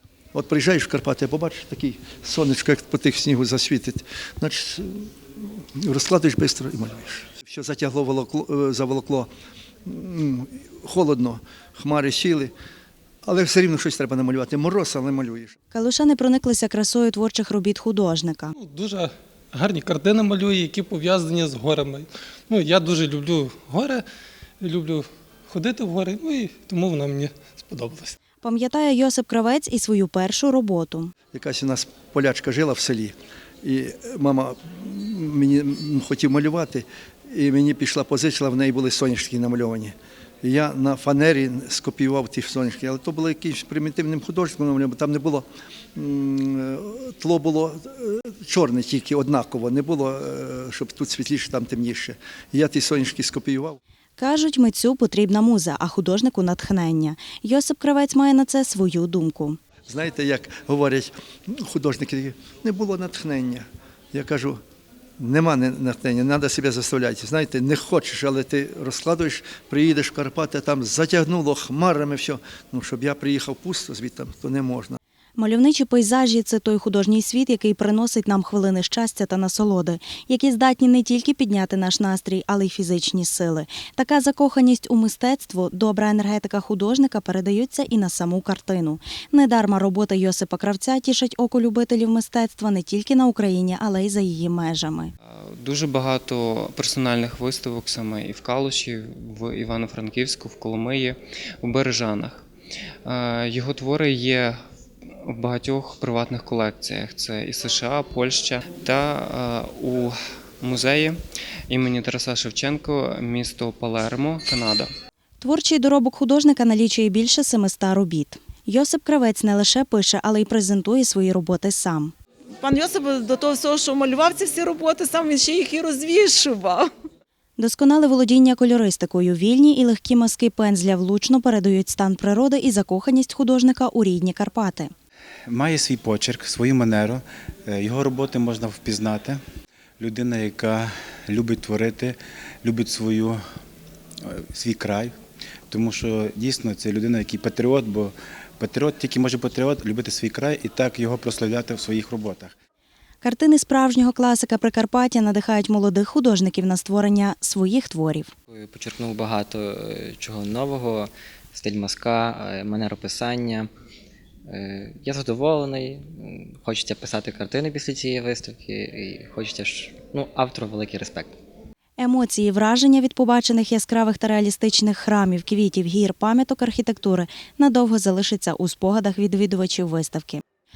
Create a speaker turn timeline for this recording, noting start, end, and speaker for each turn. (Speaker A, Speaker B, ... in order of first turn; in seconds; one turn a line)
Speaker A: 0.3-9.3
Speaker A: 9.9-12.5
Speaker A: 13.2-15.6
Speaker B: 15.7-18.5
Speaker C: 18.6-24.0
Speaker C: 24.6-28.2
Speaker B: 28.4-31.1
Speaker A: 31.3-45.5
Speaker A: 46.0-53.8
Speaker B: 54.2-59.6
Speaker A: 59.9-64.6
Speaker A: 65.2-75.0
Speaker B: 75.4-95.1
Speaker D: 95.3-102.4
Speaker D: 103.1-104.6
Speaker D: 105.2-111.2
Speaker D: 111.7-114.9
Speaker B: 115.4-122.1
Speaker E: 122.6-126.9
Speaker B: 127.6-134.9
Speaker F: 135.5-139.4
Speaker F: 140.0-143.4
Speaker F: 144.2-145.1
Speaker F: 145.7-152.5
Speaker B: 153.2-158.3
Speaker G: 158.5-163.7
Speaker G: 164.5-171.4
Speaker B: 172.0-180.4